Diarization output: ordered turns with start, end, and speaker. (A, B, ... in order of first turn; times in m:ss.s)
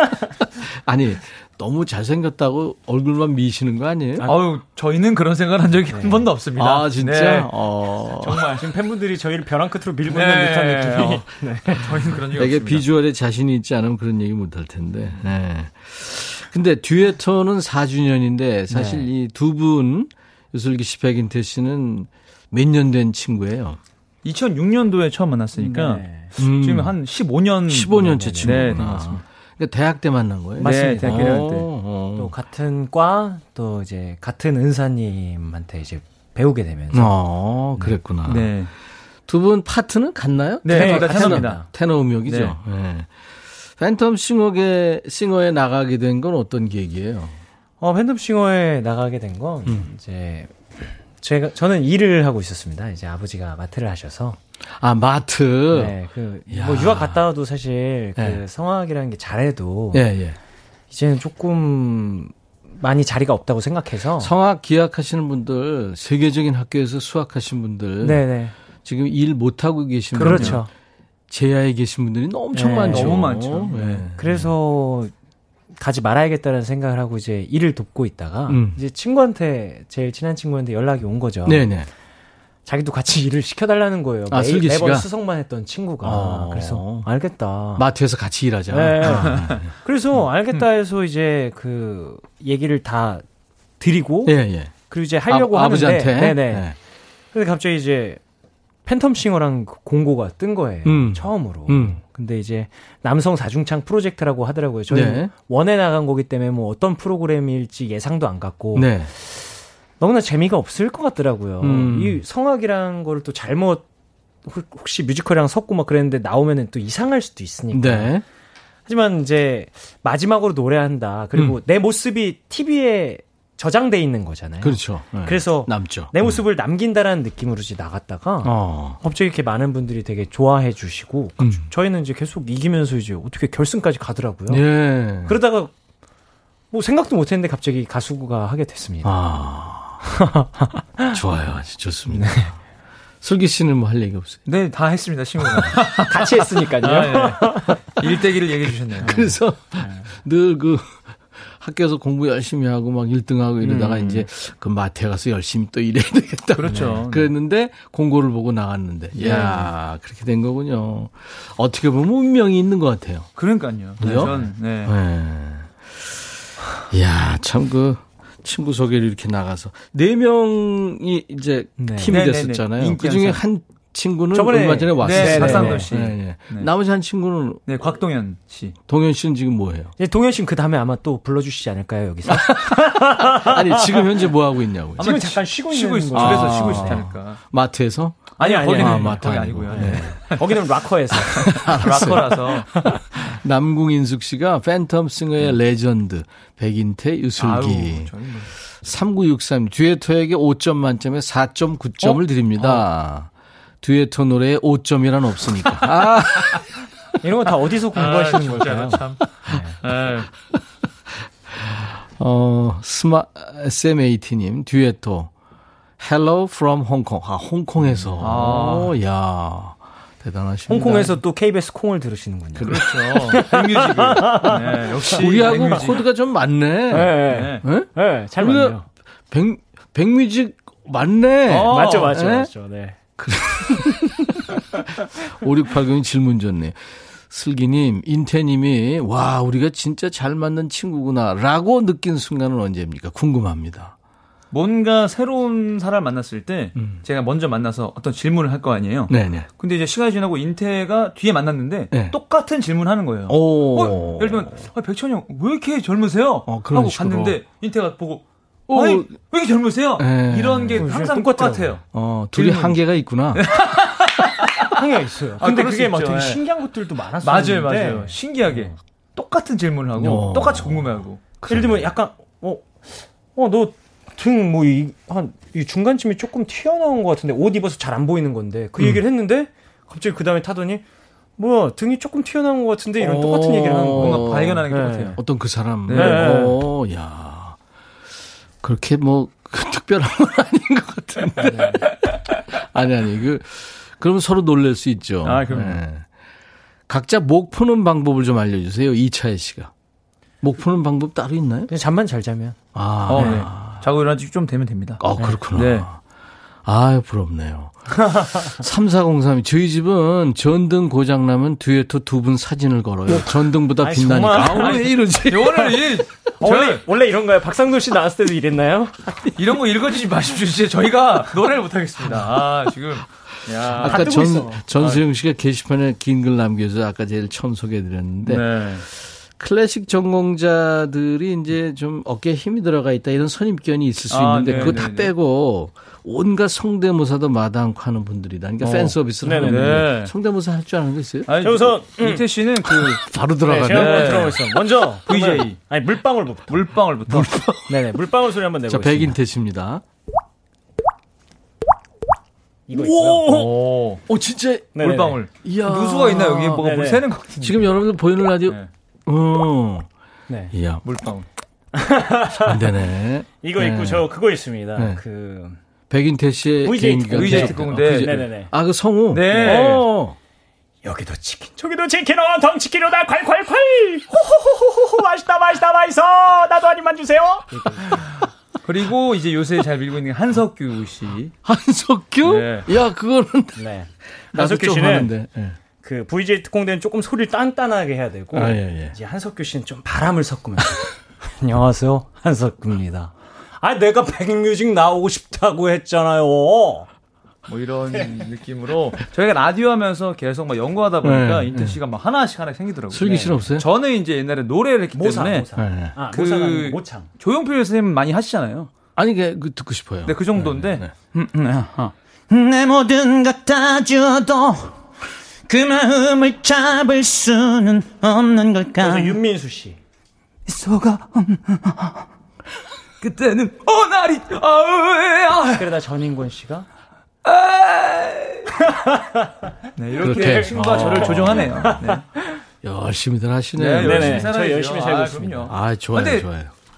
0:00.4-0:04.3 A
0:04.2-0:07.5 B
0:05.9-0:06.3 C
0:06.6-0:08.6 A
0:08.2-0:08.7 B
0:08.3-0:12.0 C
0:10.1-0:12.9 B
0:12.3-0:23.8 A
0:18.7-0:19.1 C
0:24.2-0:29.2 B
0:25.6-0:26.3 C
0:26.4-0:27.0 A
0:27.7-0:32.3 A
0:28.0-0:29.0 C
0:30.6-0:31.6 C
0:30.6-0:31.6 B
0:32.2-0:38.0 C
0:36.9-0:38.5 A
0:38.2-0:38.7 B
0:39.3-0:43.1 A
0:40.6-0:42.6 B
0:40.7-0:41.7 C
0:43.7-0:47.4 A
0:47.8-0:54.4 C
0:54.8-0:56.0 A
0:55.7-1:00.1 C
0:56.5-0:57.3 A
0:58.2-0:58.4 A
0:59.9-1:00.4 A
1:00.9-1:04.3 C
1:04.2-1:08.3 A
1:08.0-1:08.6 C
1:08.8-1:10.7 A
1:10.2-1:10.7 C
1:10.2-1:10.6 B
1:11.3-1:14.5 A
1:12.5-1:13.3 C
1:12.8-1:14.0 B
1:14.0-1:15.1 C
1:15.8-1:21.8 C
1:18.5-1:18.8 A
1:21.4-1:21.9 A
1:22.7-1:27.8 C
1:24.3-1:25.1 A
1:26.0-1:27.1 A
1:27.8-1:29.7 A
1:28.7-1:33.2 C
1:33.8-1:36.7 C
1:34.2-1:34.8 A
1:35.3-1:36.8 A
1:37.3-1:38.2 C
1:38.8-1:49.5 C
1:40.8-1:42.0 A
1:44.9-1:45.3 A
1:48.7-1:49.1 A
1:50.0-1:53.9 C
1:51.6-1:52.2 A
1:54.4-1:58.2 C
1:57.7-1:58.2 A
1:58.9-2:15.7 C
2:04.6-2:06.4 A
2:08.4-2:09.0 A
2:11.4-2:11.7 A
2:14.5-2:15.4 A
2:16.7-2:19.2 C
2:19.0-2:20.1 A
2:20.0-2:21.2 C
2:21.1-2:22.5 A
2:22.1-2:22.5 C
2:23.2-2:24.4 A
2:24.5-2:29.2 B
2:25.4-2:25.7 A
2:26.1-2:27.9 C
2:29.0-2:43.3 A
2:29.0-2:30.1 C
2:33.6-2:34.3 C
2:36.6-2:37.3 B
2:39.2-2:39.7 C
2:43.4-2:45.0 B
2:44.0-2:46.2 A
2:44.0-2:44.3 C
2:46.9-2:57.7 A
2:51.8-2:52.2 C
2:52.1-2:53.4 B
2:54.3-2:55.9 C
2:55.0-2:56.7 B
2:57.7-2:58.8 B
2:58.9-3:00.0 A
3:00.0-3:04.2 C
3:02.3-3:05.2 A
3:05.0-3:07.0 C
3:05.0-3:07.4 B
3:06.1-3:10.2 A
3:08.4-3:10.6 B
3:08.4-3:12.2 C
3:11.3-3:12.6 A
3:11.6-3:12.7 B
3:13.2-3:18.1 A
3:17.4-3:18.5 B
3:18.7-3:23.3 A
3:22.0-3:22.9 B
3:23.8-3:26.6 A
3:27.2-3:29.8 C
3:27.9-3:30.3 B
3:31.5-3:35.3 A
3:36.0-3:41.2 A
3:38.2-3:39.0 B
3:40.7-3:45.1 C
3:42.6-3:42.9 A
3:42.6-3:46.0 B
3:45.1-3:48.8 A
3:46.9-3:48.9 C
3:47.3-3:47.7 B
3:49.3-3:52.5 A
3:51.5-3:52.1 B
3:51.7-3:53.0 C
3:53.2-4:04.0 A
4:04.5-4:21.8 B
4:06.8-4:07.0 A
4:09.1-4:09.5 A
4:11.9-4:12.2 A
4:13.3-4:14.6 A
4:16.5-4:17.4 A
4:18.7-4:19.2 A
4:20.0-4:21.0 A
4:20.8-4:21.8 C
4:21.9-4:23.5 A
4:22.3-4:22.8 B
4:23.4-4:24.8 B
4:24.8-4:28.7 C
4:25.4-4:26.4 B
4:27.2-4:31.3 B
4:30.0-4:31.9 A
4:31.5-4:40.8 C
4:41.4-4:45.2 C
4:43.0-4:47.6 A
4:44.0-4:45.2 B
4:45.9-4:46.4 B
4:45.9-4:46.6 C
4:48.6-4:51.9 A
4:51.4-4:51.8 C
4:52.5-4:56.1 A
4:55.2-4:55.8 B
4:56.9-4:59.7 A
5:00.4-5:01.7 A
5:01.7-5:02.6 C
5:02.7-5:03.8 A
5:03.1-5:05.9 B
5:05.0-5:06.0 A
5:06.6-5:15.8 A
5:07.9-5:08.5 C
5:13.1-5:14.8 C
5:14.6-5:16.8 B
5:16.4-5:19.0 C
5:19.3-5:24.2 B
5:23.7-5:24.7 C
5:23.8-5:28.7 A
5:24.7-5:25.0 B
5:28.2-5:28.8 B
5:29.4-5:41.4 A
5:34.1-5:35.1 B
5:38.6-5:40.1 B
5:39.1-5:39.8 C
5:41.3-5:45.6 B
5:41.4-5:42.3 C
5:42.9-5:44.6 A
5:43.4-5:46.7 C
5:46.5-5:47.3 B
5:47.1-5:47.9 A
5:47.7-5:49.2 C
5:48.7-5:49.8 A
5:52.7-5:53.5 C
5:52.7-5:56.7 A
5:53.2-5:54.0 B
5:54.8-5:55.2 C
5:54.8-5:57.8 B
5:56.6-5:57.1 C
5:57.4-5:59.9 A
5:58.4-5:58.7 B
6:00.3-6:00.5 C
6:00.5-6:00.8 A
6:00.8-6:01.3 B
6:01.7-6:02.6 C
6:02.4-6:04.1 A
6:03.4-6:05.6 C
6:04.7-6:05.0 A
6:05.9-6:10.2 A
6:06.6-6:08.5 C
6:07.1-6:08.3 B
6:09.1-6:09.8 B
6:09.3-6:09.9 C
6:10.8-6:18.1 C
6:18.6-6:21.3 B
6:21.4-6:23.7 A
6:22.2-6:22.7 B
6:23.6-6:25.2 C
6:24.3-6:25.6 A
6:25.7-6:36.9 C
6:28.3-6:29.0 A
6:37.5-6:45.5 B
6:41.0-6:41.8 A
6:42.9-6:43.7 A
6:44.9-6:47.1 C
6:45.6-6:46.0 A
6:46.1-6:48.7 B
6:49.0-6:50.9 A
6:50.0-6:51.9 B
6:52.3-6:54.8 D
6:55.5-6:59.2 D
6:58.8-6:59.8 C
7:00.5-7:02.1 D
7:03.0-7:05.8 B
7:05.6-7:06.7 C
7:07.2-7:08.4 B
7:08.7-7:09.3 C
7:09.8-7:12.0 B
7:10.0-7:11.7 A
7:10.0-7:12.0 C
7:12.6-7:14.4 A
7:13.6-7:16.3 B
7:13.8-7:15.5 C
7:15.5-7:16.5 A